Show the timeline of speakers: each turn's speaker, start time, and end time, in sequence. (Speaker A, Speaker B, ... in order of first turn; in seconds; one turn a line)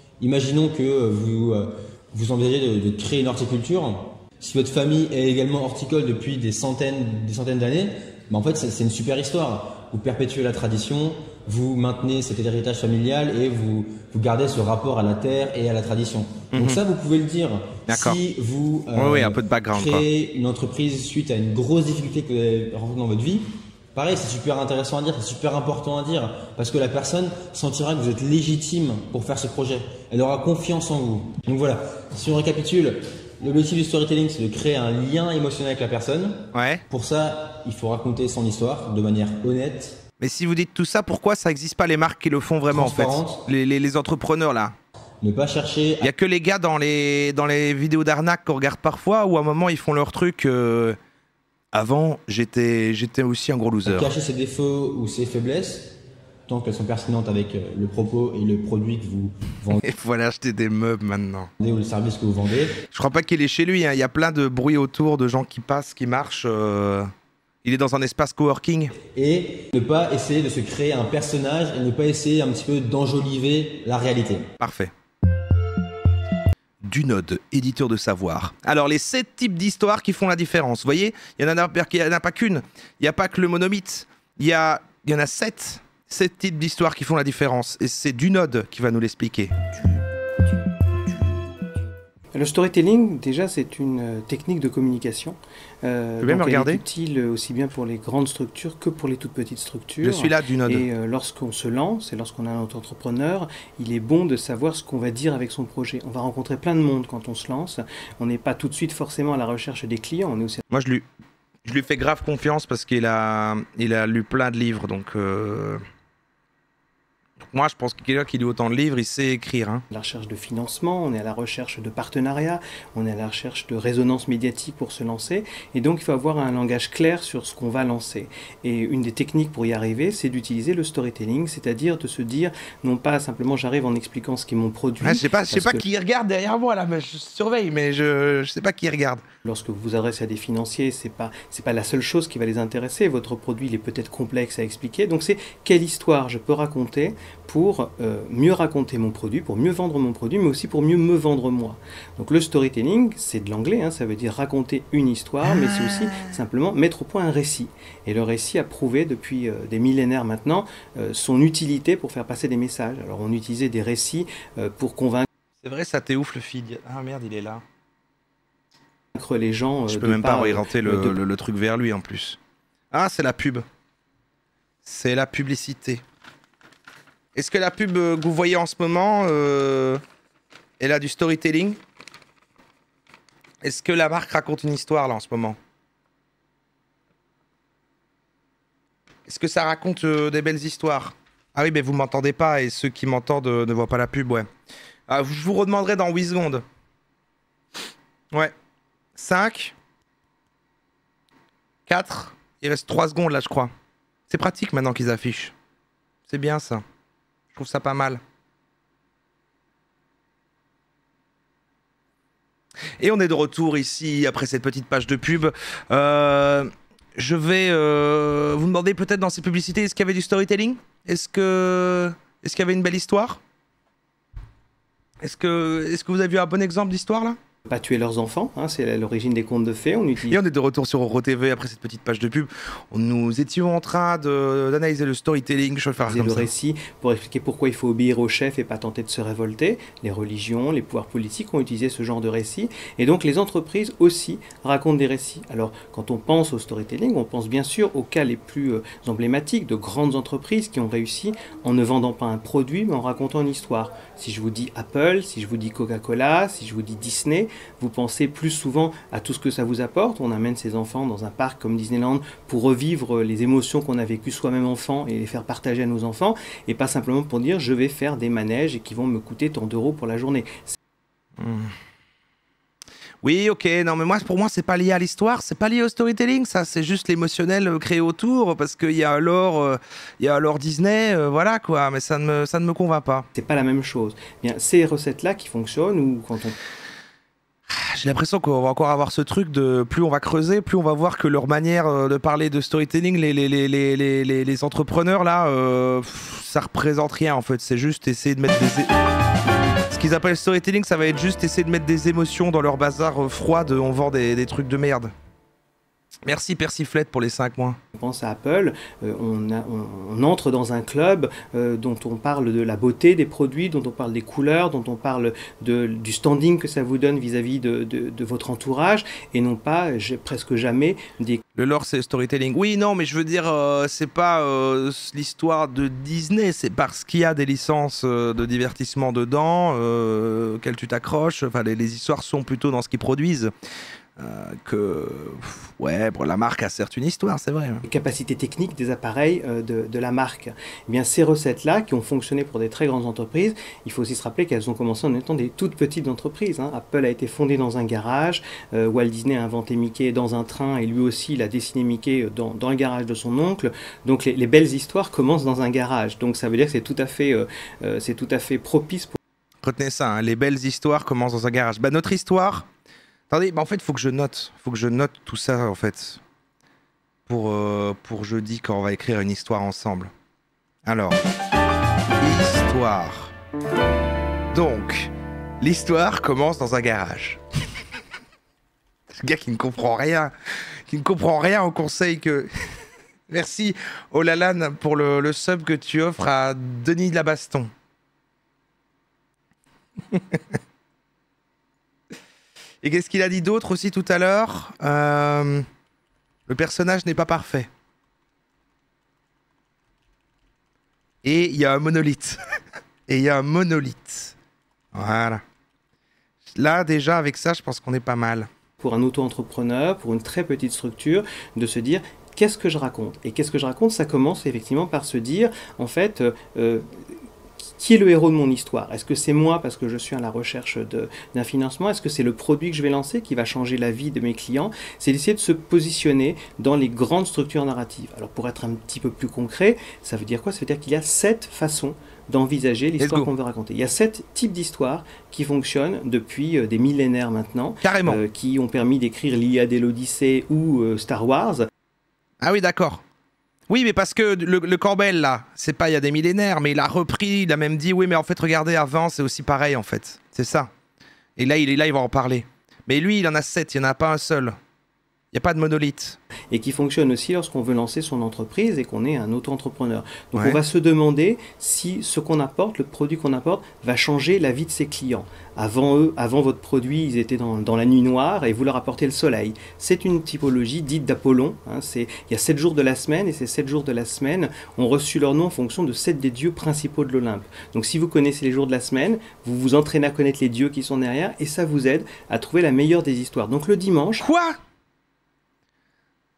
Speaker A: 0.2-40.0
Speaker B: 16.5-16.8
Speaker B: 17.9-18.2
Speaker B: 18.9-20.1
Speaker B: 36.5-36.8
Speaker B: 40.2-44.7
Speaker A: 42.7-43.4
Speaker A: 45.2-46.1
Speaker B: 46.0-51.0
Speaker B: 51.7-54.1
Speaker A: 53.9-59.8
Speaker B: 59.7-61.5
Speaker A: 61.6-62.8
Speaker B: 62.9-67.1
Speaker B: 67.6-69.0
Speaker A: 69.1-74.5
Speaker B: 74.6-74.9
Speaker B: 76.8-89.7
Speaker C: 92.3-110.6
Speaker B: 96.2-96.8
Speaker B: 100.0-100.9
Speaker B: 110.7-111.0
Speaker B: 111.6-115.8
Speaker B: 117.5-119.8
Speaker C: 119.9-135.8
Speaker B: 135.0-139.2
Speaker C: 139.4-165.3
Speaker B: 155.6-155.9
Speaker B: 165.6-167.6
Speaker C: 169.2-171.2
Speaker B: 169.9-172.4
Speaker B: 172.9-173.6
Speaker B: 174.8-176.0
Speaker B: 177.3-180.0
Speaker B: 180.8-181.8
Speaker B: 183.6-185.6
Speaker B: 189.3-194.5
Speaker B: 195.1-196.6
Speaker B: 199.2-199.7
Speaker B: 201.9-203.7
Speaker B: 204.3-205.5
Speaker B: 206.3-206.8
Speaker B: 207.5-208.2
Speaker B: 213.0-223.4
Speaker B: 225.2-227.4
Speaker C: 227.7-230.4
Speaker B: 230.3-236.5
Speaker C: 236.1-270.8
Speaker B: 271.4-271.7
Speaker B: 273.2-283.3
Speaker C: 283.3-286.5
Speaker B: 287.7-298.9
Speaker B: 299.9-305.1
Speaker B: 306.2-307.8
Speaker C: 307.9-321.4
Speaker B: 321.5-333.5
Speaker B: 334.2-337.8
Speaker C: 337.8-359.2
Speaker B: 359.6-362.7
Speaker B: 363.3-366.2
Speaker B: 367.3-370.1
Speaker B: 370.8-371.2
Speaker B: 372.2-373.3
Speaker B: 374.5-377.4
Speaker B: 379.2-380.3
Speaker B: 380.9-382.5
Speaker B: 383.3-387.7
Speaker B: 390.1-390.4
Speaker B: 392.8-395.6
Speaker B: 396.5-397.7
Speaker B: 401.2-402.4
Speaker B: 403.1-404.3
Speaker B: 404.9-405.4
Speaker B: 406.5-408.5
Speaker C: 408.8-416.9
Speaker C: 417.6-441.7
Speaker B: 433.0-433.3
Speaker B: 437.8-438.2
Speaker B: 442.4-443.0
Speaker B: 443.7-450.7
Speaker B: 451.4-454.6
Speaker B: 455.3-456.2
Speaker C: 456.5-484.2
Speaker B: 460.3-460.6
Speaker B: 484.2-484.6